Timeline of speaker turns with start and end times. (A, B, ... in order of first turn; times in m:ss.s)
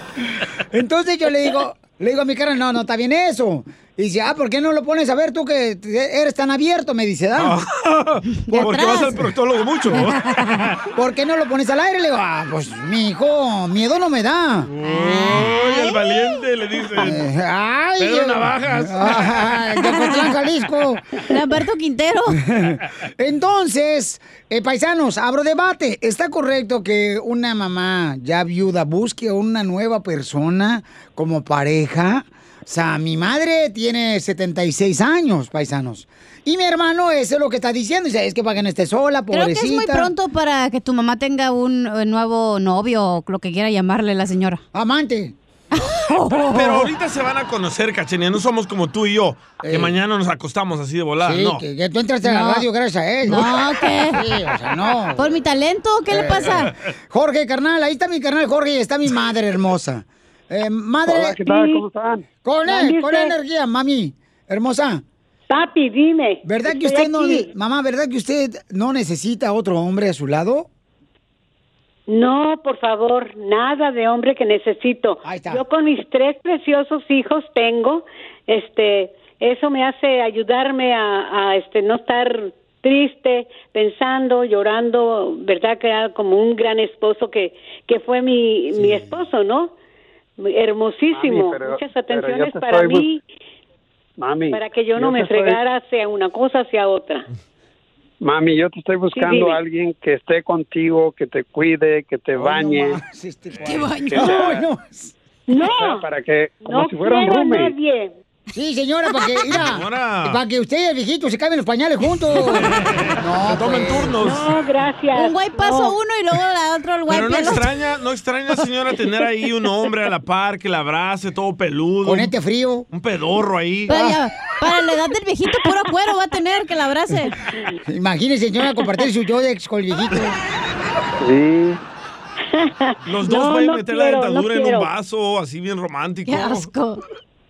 0:00.7-0:07.6 A
0:07.4-0:10.8 B
0:08.3-0:09.2 C
0:08.5-0:09.0 A
0:10.9-0:14.7 A
0:14.7-0:17.2 B
0:14.8-0:16.4 C
0:17.0-0:21.1 A
0:18.0-0:19.4 B
0:19.8-0:20.3 C
0:21.3-0:22.4 C
0:22.3-0:40.1 A
0:39.3-0:44.6 C
0:44.7-0:45.3 A
0:45.7-0:46.7 C
0:46.5-0:51.6 B
0:49.6-0:50.0 A
0:51.2-0:55.4 A
0:52.2-0:52.6 C
0:53.2-0:54.2 C
0:55.2-0:56.7 C
0:56.1-1:01.4 A
1:01.1-1:02.2 D
1:01.5-1:01.8 E
1:02.4-1:05.0 A
1:02.6-1:03.3 E
1:05.5-1:07.5 E
1:06.4-1:10.7 A
1:12.1-1:29.7 E
1:15.2-1:15.6 A
1:30.4-1:33.2 E
1:31.1-1:33.0 D
1:34.2-1:35.6 D
1:34.5-1:37.2 E
1:38.2-1:43.0 D
1:39.1-1:39.6 E
1:42.4-1:45.1 A
1:43.6-1:44.4 C
1:44.1-1:44.6 D
1:45.5-1:46.0 E
1:45.5-1:47.7 D
1:46.6-1:48.1 E
1:48.5-1:54.2 A
1:49.2-1:49.6 C
1:49.6-1:50.4 B
1:52.4-1:54.5 B
1:54.2-1:55.9 E
1:55.1-1:57.7 C
1:57.1-2:02.3 B
2:02.0-2:02.9 A
2:02.9-2:03.9 B
2:03.9-2:07.4 C
2:03.9-2:04.2 A
2:07.9-2:10.4 A
2:11.2-2:11.8 D
2:12.6-2:14.9 E
2:13.0-2:16.7 B
2:16.3-2:17.0 C